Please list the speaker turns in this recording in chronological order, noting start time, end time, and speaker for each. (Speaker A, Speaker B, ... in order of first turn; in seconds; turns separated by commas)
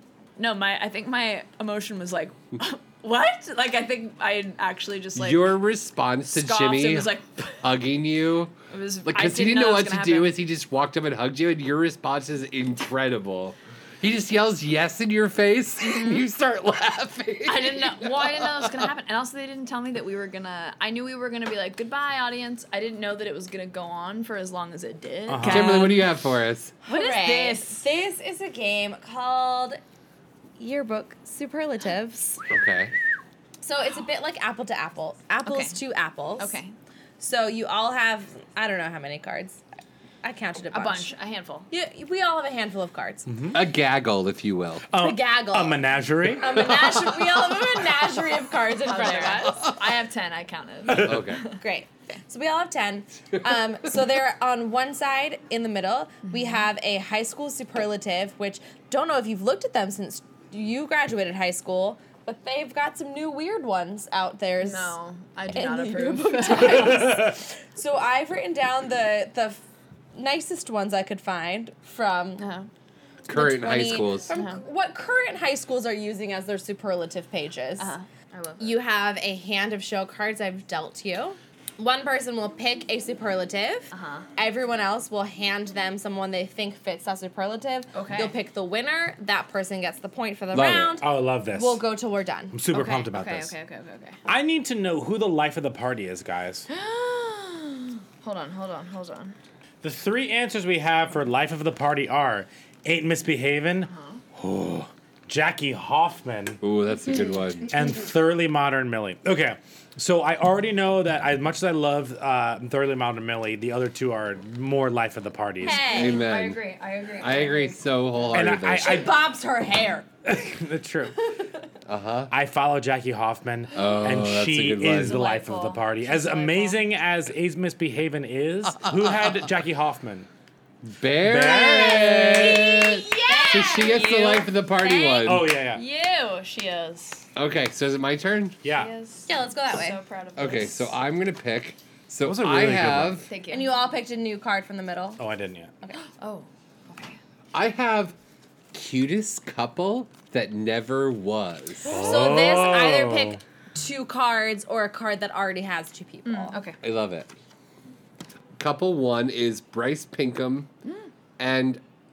Speaker A: 0.4-5.5, Speaker B: 5.1-8.5, Speaker A: 6.3-7.6, Speaker A: 8.7-10.3, Speaker B: 9.1-18.8, Speaker A: 15.8-16.2, Speaker A: 17.4-26.1, Speaker C: 25.3-25.9, Speaker B: 25.4-26.7, Speaker D: 26.8-29.8, Speaker A: 26.9-27.8, Speaker D: 30.6-32.4, Speaker B: 32.5-32.9, Speaker D: 33.6-36.6, Speaker A: 35.4-35.8, Speaker A: 36.4-36.7, Speaker D: 37.2-39.6, Speaker D: 40.2-41.1, Speaker A: 40.7-41.7, Speaker D: 41.7-43.3, Speaker C: 43.3-43.6, Speaker B: 43.5-44.8, Speaker C: 44.9-46.7, Speaker D: 45.0-49.7, Speaker A: 48.8-51.6, Speaker C: 50.9-51.2, Speaker B: 50.9-51.4, Speaker D: 51.6-65.0, Speaker A: 56.3-56.6, Speaker A: 64.6-67.3, Speaker D: 65.5-69.6, Speaker D: 70.1-72.5, Speaker A: 72.4-72.7, Speaker B: 73.3-74.3, Speaker D: 73.3-78.0, Speaker A: 74.3-74.6, Speaker A: 77.8-78.8, Speaker D: 78.6-92.5, Speaker A: 83.9-84.3, Speaker A: 87.9-88.3, Speaker B: 90.5-91.0, Speaker C: 91.0-91.8, Speaker C: 92.5-93.5, Speaker A: 92.7-94.2, Speaker C: 94.3-96.7, Speaker A: 96.7-99.3, Speaker C: 99.8-106.6, Speaker A: 103.9-104.2, Speaker B: 106.6-107.7, Speaker C: 107.7-115.9, Speaker D: 115.6-116.2, Speaker A: 115.8-117.8, Speaker B: 115.8-116.6, Speaker B: 117.2-119.1, Speaker C: 118.3-119.2, Speaker D: 118.8-120.0, Speaker C: 120.2-121.2, Speaker B: 121.9-122.3, Speaker C: 122.3-130.3, Speaker B: 123.7-125.2, Speaker A: 125.0-126.9, Speaker B: 130.9-135.5, Speaker C: 131.2-132.5, Speaker A: 132.1-134.9, Speaker D: 133.1-134.1, Speaker D: 134.8-135.3, Speaker C: 135.2-135.8, Speaker A: 135.7-137.3, Speaker B: 137.3-138.6, Speaker C: 138.6-138.9, Speaker A: 138.7-141.0, Speaker D: 139.2-140.0, Speaker B: 140.4-143.3, Speaker C: 142.2-143.2, Speaker A: 143.2-143.8, Speaker D: 143.5-145.2, Speaker C: 145.2-145.7, Speaker A: 146.1-147.2, Speaker B: 147.5-148.1, Speaker B: 148.7-151.9, Speaker C: 151.8-153.4, Speaker D: 151.8-156.6, Speaker A: 156.2-156.8, Speaker B: 156.8-157.3, Speaker B: 158.6-160.7, Speaker B: 161.4-161.8